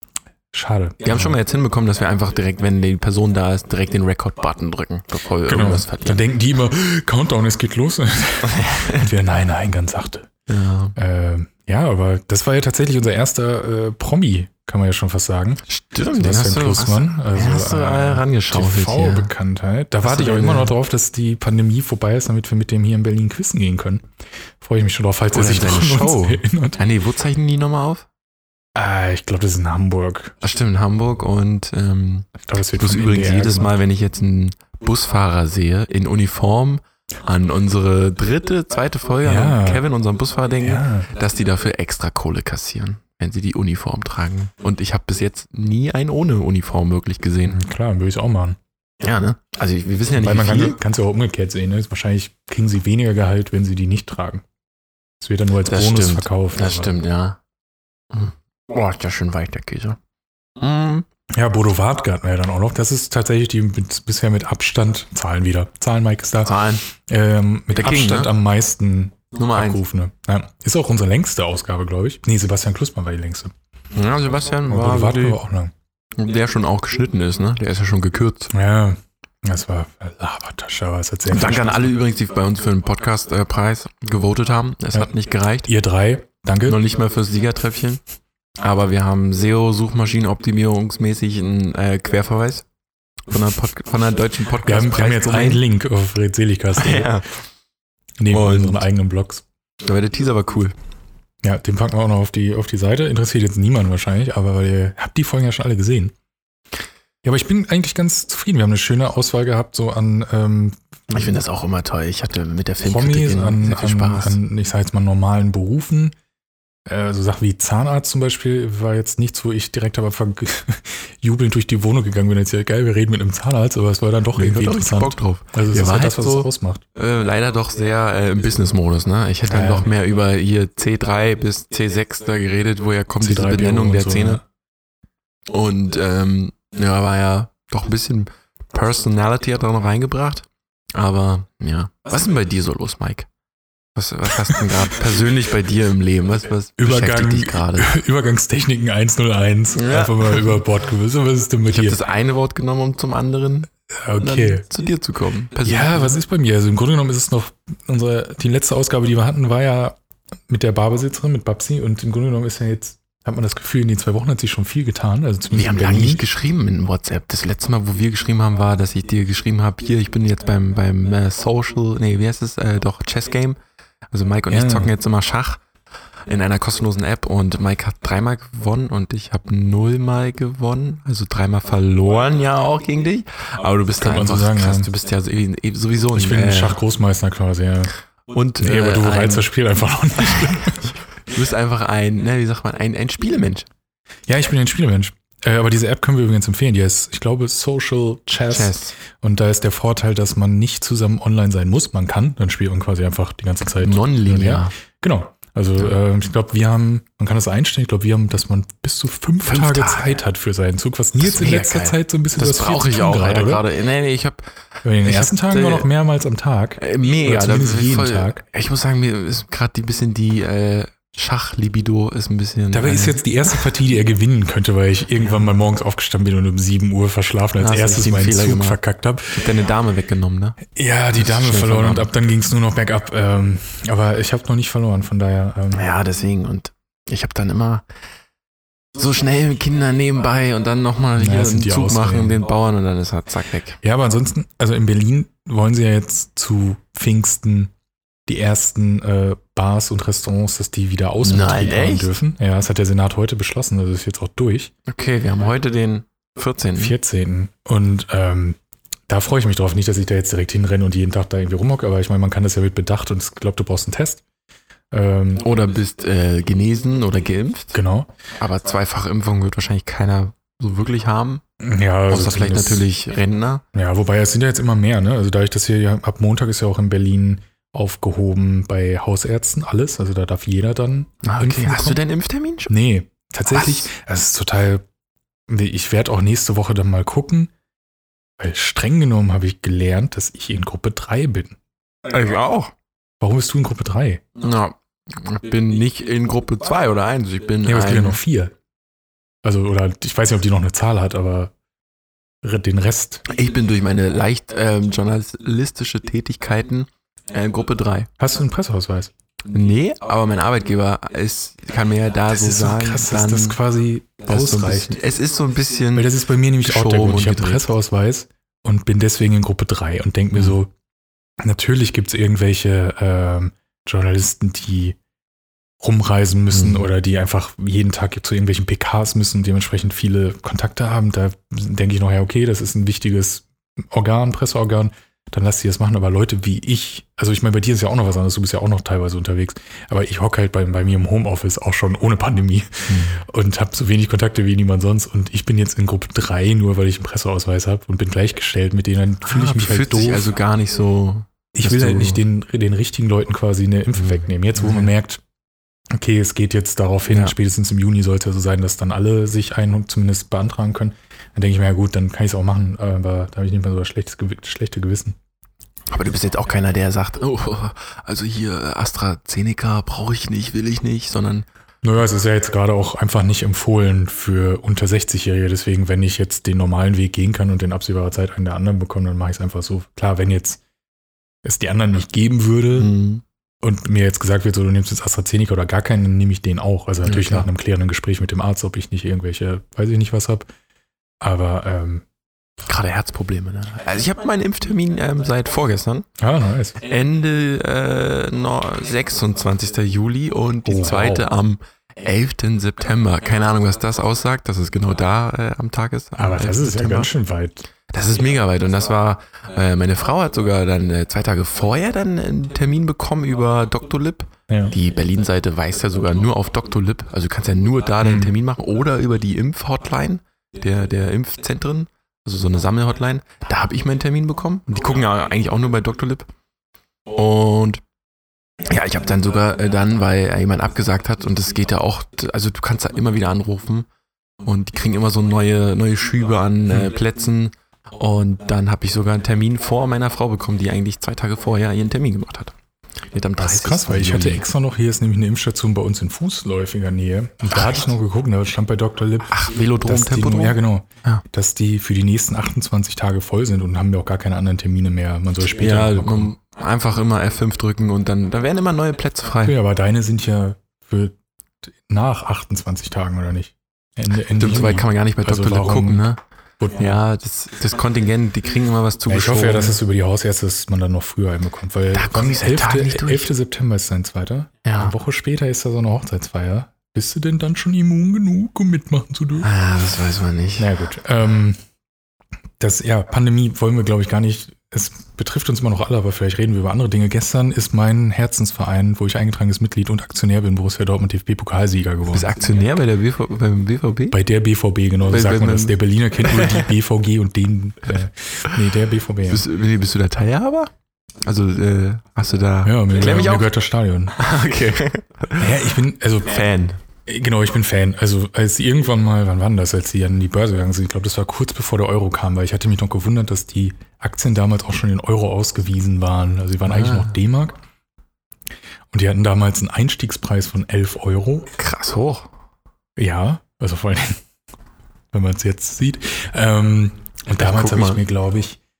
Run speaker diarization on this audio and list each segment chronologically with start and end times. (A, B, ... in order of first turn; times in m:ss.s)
0:00.5-0:01.4 A
0:01.0-0:06.2 B
0:05.4-0:10.3 A
0:08.4-0:09.0 B
0:10.5-0:11.0 B
0:11.0-0:24.1 A
0:15.7-0:19.3 B
0:20.0-0:20.7 B
0:24.6-0:26.8 A
0:25.3-0:28.0 B
0:28.7-0:30.3 A
0:30.4-0:47.6 B
0:32.4-0:33.8 A
0:39.2-0:39.8 A
0:40.6-0:41.1 A
0:47.4-0:48.6 A
0:49.0-0:50.8 B
0:50.2-0:54.4 A
0:55.2-0:56.9 A
0:55.6-0:57.4 B
0:58.1-1:00.0 B
1:00.6-1:01.0 B
1:01.3-1:13.5 A
1:06.4-1:06.8 B
1:07.7-1:08.3 B
1:09.3-1:09.8 B
1:13.9-1:15.4 B
1:14.7-1:15.7 A
1:16.1-1:18.5 B
1:18.5-1:21.9 A
1:21.3-1:25.7 B
1:25.6-1:26.8 A
1:26.6-1:28.0 B
1:28.6-1:32.6 B
1:33.3-1:35.6 B
1:34.6-1:37.1 A
1:36.8-1:37.3 B
1:38.2-1:39.4 A
1:38.3-1:38.9 B
1:39.8-1:40.7 B
1:41.4-1:46.1 A
1:47.2-1:51.3 A
1:51.1-1:54.4 B
1:52.8-1:56.1 A
1:56.8-2:06.8 A
2:04.4-2:14.4 B
2:09.5-2:09.9 A
2:13.2-2:14.4 A
2:15.5-2:23.3 B
2:24.0-2:28.0 B
2:26.8-2:32.0 A
2:29.7-2:30.6 B
2:31.7-2:36.1 B
2:34.0-2:34.6 A
2:35.6-2:40.0 A
2:40.5-2:46.2 A
2:45.5-2:53.6 B
2:54.1-2:55.6 B
2:54.5-2:54.9 A
2:56.3-3:06.8 B
3:04.0-3:04.9 A
3:06.1-3:07.9 A
3:08.3-3:09.5 B
3:08.6-3:10.9 A
3:10.2-3:13.7 B
3:14.3-3:33.6 A
3:18.5-3:18.9 B
3:23.8-3:24.7 B
3:29.4-3:30.2 B
3:31.2-3:35.9 B
3:34.8-3:38.4 A
3:36.8-3:43.2 B
3:42.7-3:49.4 A
3:47.6-3:48.8 B
3:49.3-3:50.6 B
3:50.7-3:55.9 A
3:51.1-3:52.1 B
3:55.7-3:57.8 B
3:58.9-4:03.8 B
4:01.2-4:02.4 A
4:03.8-4:07.7 A
4:08.2-4:14.7 A
4:11.2-4:12.1 B
4:14.9-4:17.0 B
4:16.8-4:18.6 A
4:19.1-4:24.2 A
4:24.9-4:25.4 A
4:25.4-4:27.8 B
4:27.7-4:28.1 A
4:28.4-4:31.4 B
4:31.6-4:32.9 A
4:32.1-4:33.6 B
4:33.7-4:42.0 A
4:41.2-4:42.7 B
4:42.7-4:44.8 A
4:43.5-4:43.8 B
4:45.5-4:47.5 A
4:48.4-4:51.6 A
4:52.1-4:52.7 B
4:53.2-4:54.2 A
4:54.4-4:58.2 B
4:57.6-4:58.5 A
4:59.4-5:01.5 A
5:02.4-5:03.2 A
5:03.3-5:08.1 B
5:08.2-5:09.1 A
5:09.5-5:13.6 B
5:12.3-5:15.0 A
5:14.2-5:17.7 B
5:15.9-5:20.7 A
5:21.4-5:25.0 A
5:25.8-5:50.3 A
5:26.5-5:26.9 B
5:42.9-5:43.2 B
5:49.2-5:52.2 B
5:51.5-5:55.2 A
5:54.0-5:54.9 B
5:55.9-6:05.2 A
5:57.1-5:57.3 B
6:05.9-6:11.4 B
6:11.8-6:20.6 A
6:21.4-6:22.9 A
6:22.7-6:23.2 B
6:23.6-6:30.5 A
6:27.0-6:27.5 B
6:31.2-6:32.0 A
6:32.6-6:36.0 B
6:36.2-6:36.8 A
6:36.8-6:47.1 B
6:40.6-6:41.3 A
6:46.2-6:47.7 A
6:47.9-7:06.3 B
6:54.5-6:54.8 A
6:58.0-6:58.3 A
7:07.1-7:07.8 B
7:08.6-7:13.9 B
7:14.4-7:22.5 B
7:23.1-7:24.4 B
7:23.4-7:36.3 A
7:27.5-7:27.8 B
7:29.3-7:31.2 B
7:35.6-7:39.6 B
7:39.4-7:46.1 A
7:44.3-7:46.2 B
7:46.6-7:47.0 A
7:46.7-7:49.8 B
7:49.1-7:59.5 A
7:51.9-7:53.3 B
7:54.6-7:54.9 B
7:59.4-8:00.7 B
8:00.6-8:01.6 A
8:02.6-8:12.3 A
8:12.1-8:14.2 B
8:14.1-8:19.5 A
8:15.0-8:16.6 B
8:19.3-8:23.5 B
8:22.6-8:24.2 A
8:24.1-8:25.5 B
8:25.4-8:26.4 A
8:26.2-8:26.8 B
8:27.0-8:37.6 A
8:36.6-8:37.1 B
8:38.9-8:41.5 A
8:41.5-8:42.3 B
8:43.0-8:44.2 A
8:45.1-8:48.6 A
8:47.4-8:48.0 B